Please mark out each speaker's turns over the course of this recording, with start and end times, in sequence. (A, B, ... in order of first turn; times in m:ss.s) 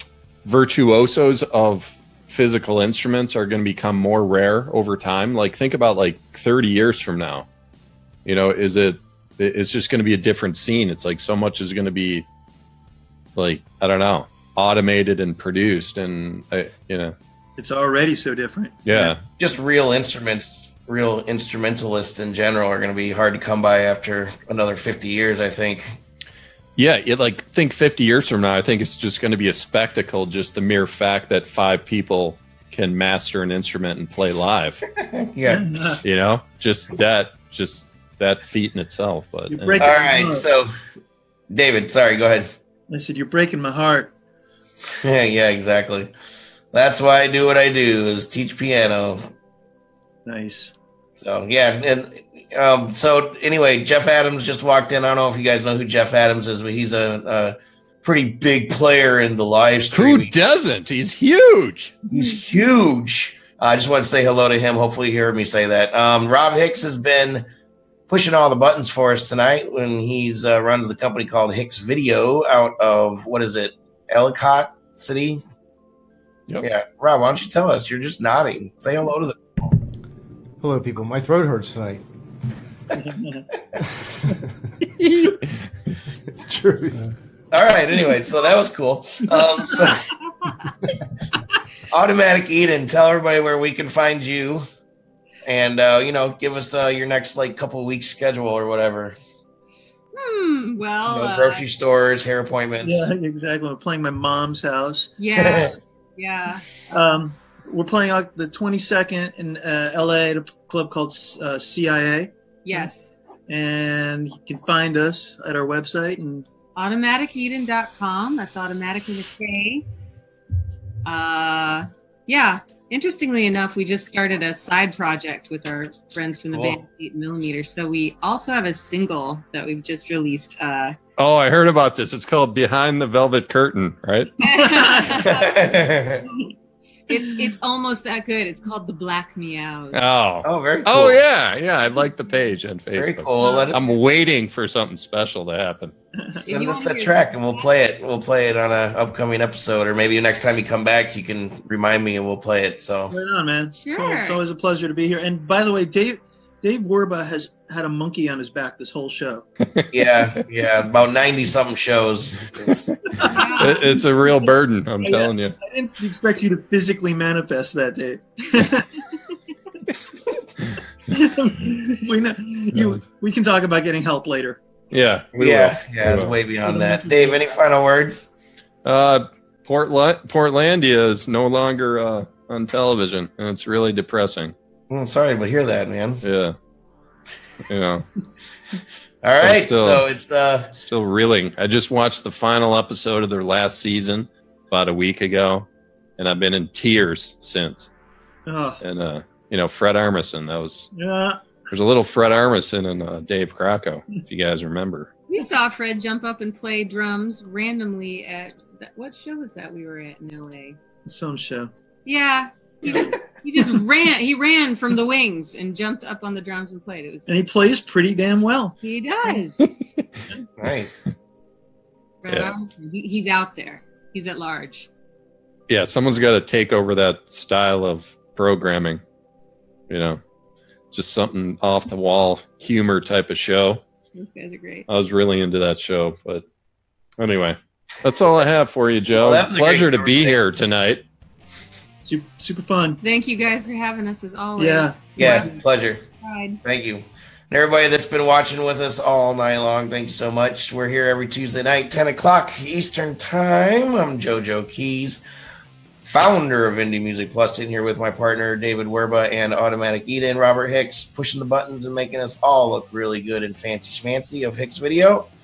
0:00.4-0:07.5 A
0:08.2-0:12.2 A
0:13.4-0:17.1 A
0:17.6-0:19.1 B
0:18.8-0:19.2 A
0:19.4-0:26.0 C
0:26.8-0:34.8 A
0:35.0-0:35.7 C
0:35.5-0:36.0 B
0:36.0-0:39.9 A
0:39.5-0:40.4 B
0:39.8-0:40.7 C
0:41.5-0:42.5 C
0:42.9-0:44.1 B
0:45.0-0:46.1 C
0:46.7-0:49.3 C
0:50.2-0:50.7 B
0:51.2-1:00.3 C
0:59.9-1:02.0 A
1:02.1-1:07.5 C
1:08.1-1:15.4 C
1:16.6-1:19.4 C
1:20.6-1:22.0 D
1:22.9-1:23.4 B
1:25.0-1:25.5 A
1:26.4-1:27.1 D
1:27.5-1:30.1 C
1:31.9-1:34.6 C
1:35.4-1:39.2 C
1:40.1-1:41.6 E
1:41.0-1:43.1 C
1:42.8-1:45.1 B
1:45.2-1:46.6 E
1:45.3-1:45.7 C
1:46.9-1:52.9 B
1:52.6-1:53.2 E
1:53.5-1:56.4 B
1:56.8-1:59.8 E
2:01.0-2:11.0 E
2:06.5-2:06.8 C
2:11.2-2:14.3 A
2:14.4-2:15.7 E
2:15.2-2:16.3 C
2:17.1-2:20.1 E
2:19.9-2:25.9 A
2:20.4-2:21.2 C
2:22.9-2:23.9 C
2:23.4-2:23.8 E
2:26.4-2:27.6 E
2:26.5-2:33.2 C
2:33.1-2:39.5 B
2:33.7-2:34.4 E
2:39.9-2:42.7 C
2:43.1-2:44.0 B
2:43.2-2:43.9 E
2:43.6-2:45.6 A
2:45.0-2:49.0 B
2:51.1-2:54.6 B
2:54.9-2:56.3 A
2:55.3-2:58.3 C
2:56.6-2:57.4 B
2:58.8-3:04.5 A
3:04.9-3:06.2 C
3:06.2-3:06.6 A
3:07.7-3:08.0 A
3:09.2-3:10.7 C
3:09.4-3:10.0 A
3:10.7-3:17.9 A
3:18.4-3:18.8 B
3:18.8-3:20.9 A
3:20.9-3:21.4 B
3:21.7-3:25.1 A
3:25.3-3:30.8 E
3:31.0-3:31.7 B
3:32.0-3:37.3 E
3:37.3-3:38.8 B
3:38.8-3:39.6 E
3:39.6-3:40.0 A
3:40.6-3:41.0 C
3:42.2-3:44.9 E
3:45.7-3:49.0 A
3:49.9-3:50.2 A
3:50.9-3:53.8 A
3:54.1-3:54.9 E
3:54.9-3:56.4 A
3:57.2-4:01.0 A
3:59.2-4:00.4 C
4:02.0-4:03.0 B
4:03.0-4:05.5 E
4:04.6-4:05.6 B
4:05.2-4:06.0 C
4:06.2-4:06.6 E
4:06.6-4:15.2 C
4:16.0-4:25.3 C